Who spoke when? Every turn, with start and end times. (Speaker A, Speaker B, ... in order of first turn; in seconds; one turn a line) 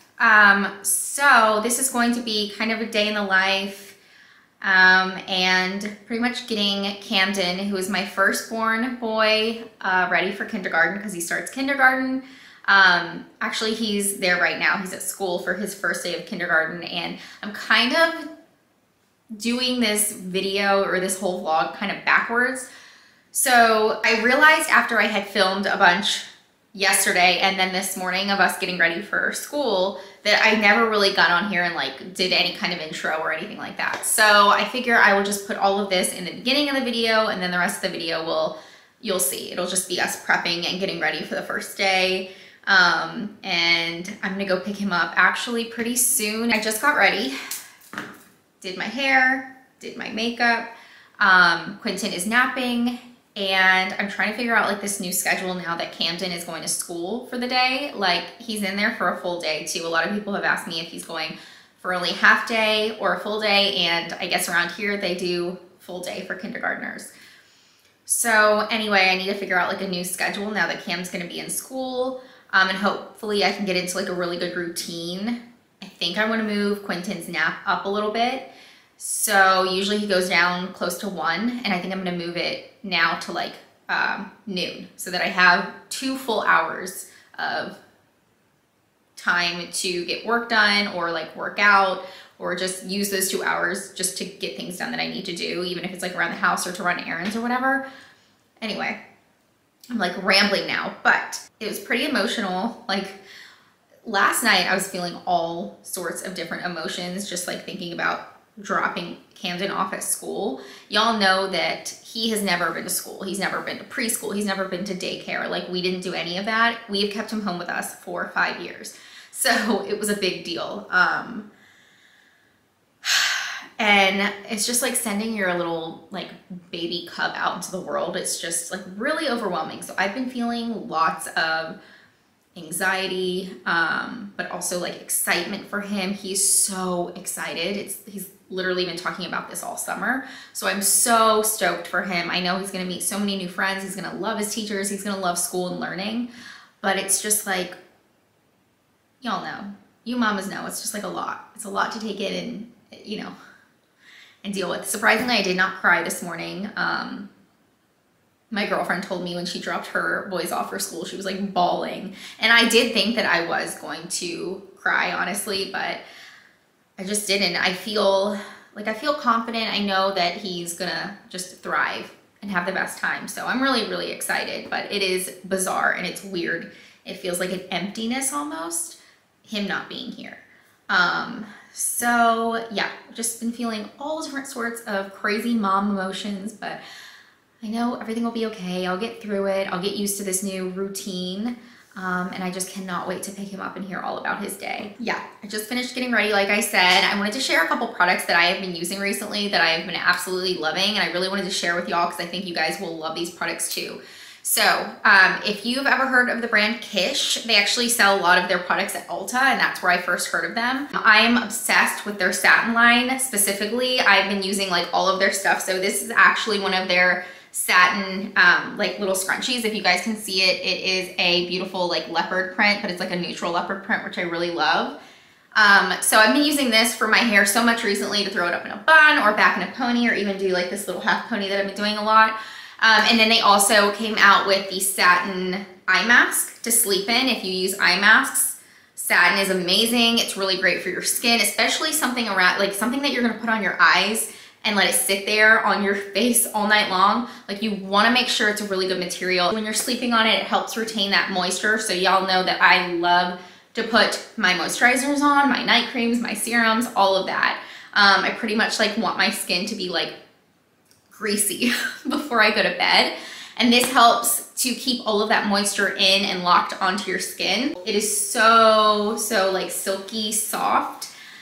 Speaker A: 0.2-4.0
Speaker A: 4.6-18.3
Speaker A: 19.4-22.7
Speaker A: 23.3-47.4
Speaker A: 48.6-67.1
Speaker A: 68.0-87.8
Speaker A: 89.2-97.8
Speaker A: 98.6-99.0
Speaker A: 99.9-103.2
Speaker A: 104.0-121.5
Speaker A: 123.0-131.8
Speaker A: 132.5-146.3
Speaker A: 146.8-147.8
Speaker A: 149.2-153.3
Speaker A: 154.4-157.3
Speaker A: 158.5-166.0
Speaker A: 167.0-186.8
Speaker A: 187.6-225.0
Speaker A: 225.5-260.2
Speaker A: 261.1-271.1